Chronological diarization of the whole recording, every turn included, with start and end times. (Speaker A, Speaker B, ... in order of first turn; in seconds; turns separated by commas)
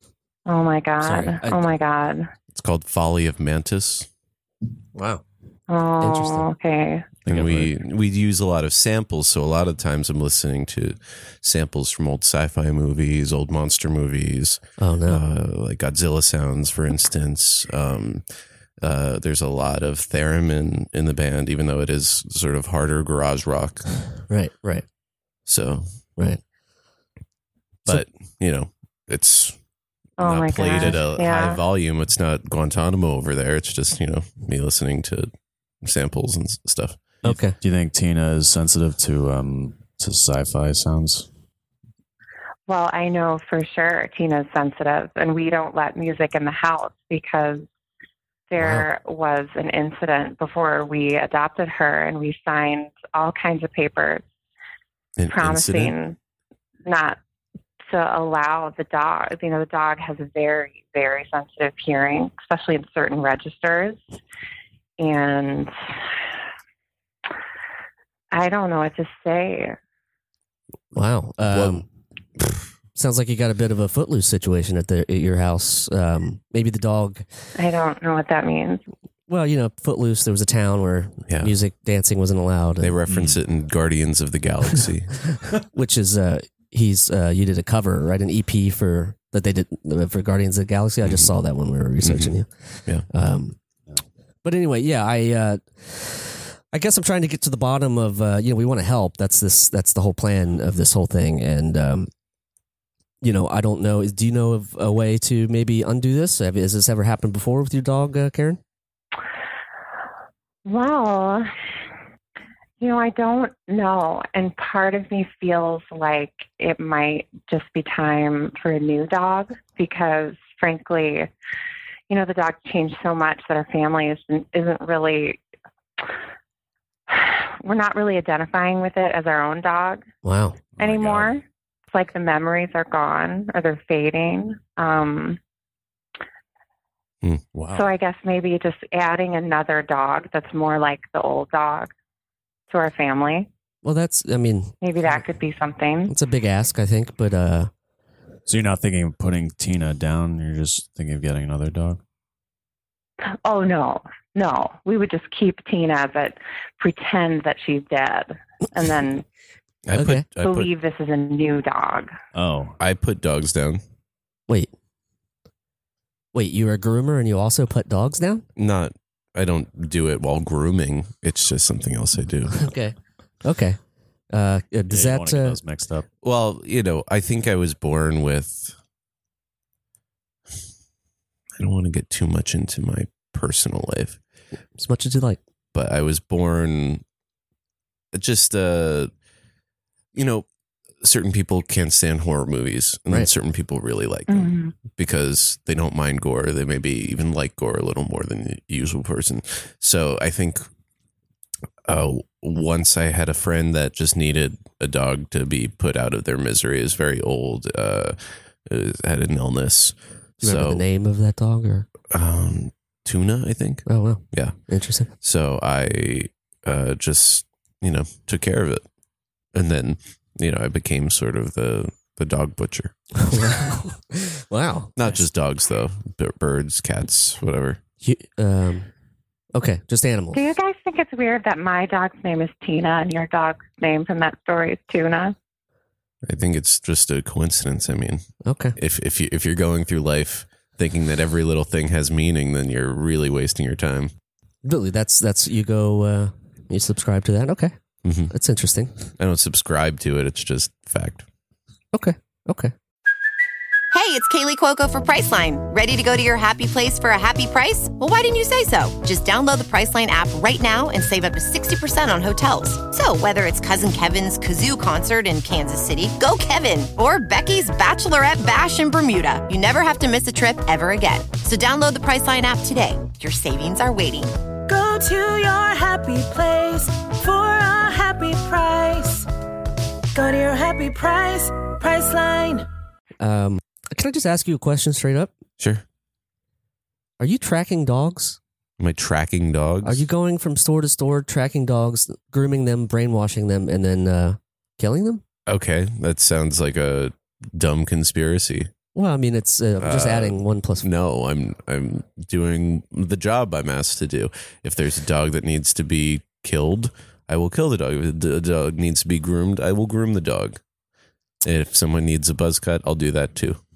Speaker A: 0.5-2.3, Speaker B: 1.0-1.6, Speaker C: 2.5-4.1, Speaker B: 5.0-5.2, Speaker A: 5.7-7.1, Speaker B: 6.0-6.5, Speaker D: 7.3-7.7, Speaker C: 7.3-18.2, Speaker B: 14.8-15.2, Speaker C: 18.8-24.0, Speaker B: 24.3-24.9, Speaker C: 25.5-25.9, Speaker C: 27.9-29.6, Speaker A: 30.2-31.6, Speaker C: 30.2-35.3, Speaker C: 35.8-37.0, Speaker D: 37.2-41.3, Speaker B: 37.2-37.6, Speaker A: 42.7-47.7, Speaker A: 48.5-54.2, Speaker C: 48.6-48.9, Speaker C: 55.2-55.9, Speaker A: 55.3-56.2, Speaker A: 56.9-57.2, Speaker A: 57.9-64.0, Speaker A: 65.0-65.7, Speaker A: 68.3-69.8, Speaker B: 70.9-71.8, Speaker C: 71.5-71.8, Speaker B: 73.0-77.2, Speaker A: 77.5-78.8, Speaker B: 79.3-83.0, Speaker C: 82.8-85.4, Speaker D: 83.1-83.4, Speaker B: 85.6-92.5, Speaker C: 91.0-91.3, Speaker C: 92.0-92.3, Speaker B: 93.1-93.6, Speaker B: 94.4-102.1, Speaker B: 103.2-108.6, Speaker A: 110.7-111.5, Speaker A: 112.8-121.3, Speaker A: 122.1-125.4, Speaker A: 127.1-130.1, Speaker B: 130.2-130.6, Speaker D: 130.8-131.3, Speaker A: 130.8-135.4, Speaker D: 137.5-137.8, Speaker A: 137.7-141.9, Speaker A: 142.7-143.5, Speaker B: 143.8-145.2, Speaker A: 144.8-146.1, Speaker B: 146.1-147.7, Speaker D: 148.5-152.0, Speaker A: 153.2-159.3, Speaker C: 159.9-160.7, Speaker B: 159.9-160.2, Speaker A: 160.3-162.1, Speaker D: 162.3-162.8, Speaker C: 162.8-163.8, Speaker B: 166.3-168.4, Speaker C: 168.6-172.6, Speaker B: 172.5-173.8, Speaker B: 174.3-175.6, Speaker D: 174.9-176.1, Speaker C: 176.2-178.7, Speaker C: 181.6-184.2, Speaker B: 184.8-185.4, Speaker C: 185.7-187.0, Speaker C: 188.1-189.1, Speaker C: 190.1-190.5, Speaker C: 191.0-200.7, Speaker A: 194.3-194.8, Speaker C: 201.9-210.8, Speaker B: 210.4-211.9, Speaker C: 212.1-214.6, Speaker B: 213.9-215.1, Speaker C: 215.2-218.8, Speaker C: 219.5-222.9, Speaker B: 223.2-225.2, Speaker C: 225.0-227.8, Speaker B: 228.0-228.9, Speaker B: 229.5-230.4, Speaker A: 230.3-235.3, Speaker C: 236.2-238.2, Speaker B: 238.4-238.8, Speaker C: 238.8-244.1, Speaker B: 244.6-247.7, Speaker C: 248.1-248.3, Speaker B: 248.3-248.9, Speaker C: 249.2-251.3, Speaker B: 251.9-252.7, Speaker E: 253.9-274.3, Speaker F: 274.7-279.3, Speaker F: 280.1-282.7, Speaker B: 283.2-285.3, Speaker C: 285.6-285.8, Speaker B: 287.2-288.4, Speaker C: 288.8-290.0, Speaker B: 289.8-295.2, Speaker C: 295.5-298.7, Speaker B: 298.9-300.9, Speaker C: 299.8-310.6, Speaker C: 311.4-313.6